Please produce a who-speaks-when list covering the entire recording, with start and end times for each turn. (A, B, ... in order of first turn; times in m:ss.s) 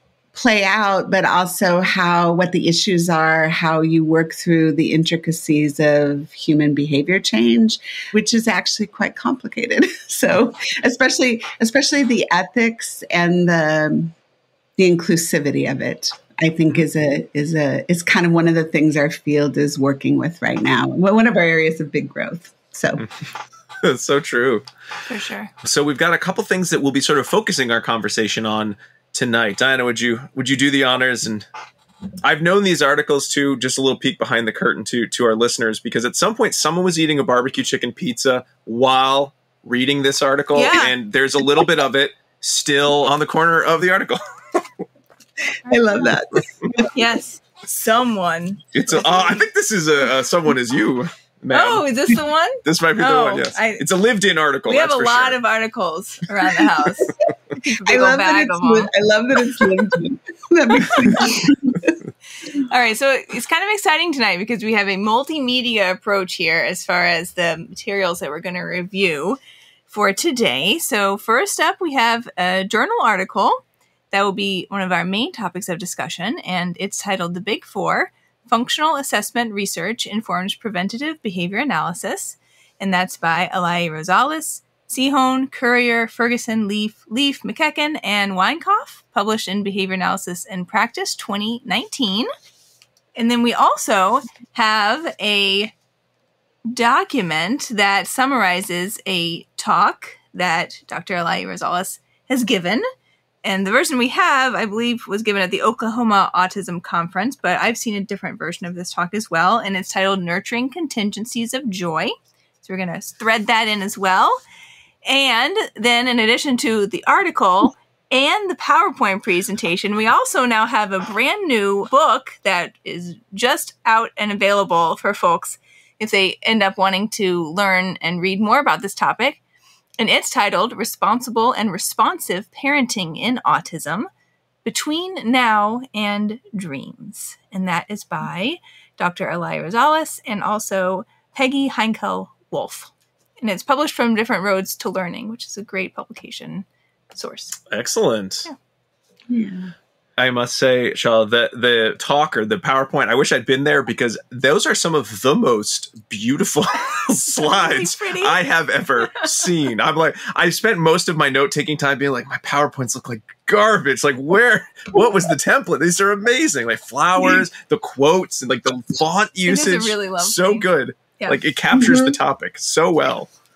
0:00.3-0:14.1 A
0:14.8-0:23.0 A
0:23.8-0:24.7 B
0:25.1-0:25.5 C
0:25.6-0:31.5 B
0:32.2-0:44.2 B
0:40.6-0:40.9 C
0:45.7-0:46.9 A
0:45.7-0:46.1 C
0:46.9-0:48.7 C
0:48.7-0:52.1 B
0:51.5-0:53.8 C
0:52.6-0:55.4 B
0:54.7-0:58.9 C
0:57.8-1:02.0 A
1:02.5-1:32.3 C
1:33.2-1:35.7 C
1:36.7-1:42.8 C
1:43.4-1:54.4 C
1:55.0-2:09.4 C
2:10.0-2:14.1 C
2:14.6-2:27.6 C
2:27.7-2:28.5 B
2:29.3-2:29.7 A
2:30.2-2:53.3 B
2:37.3-2:38.4 C
2:49.5-2:50.6 C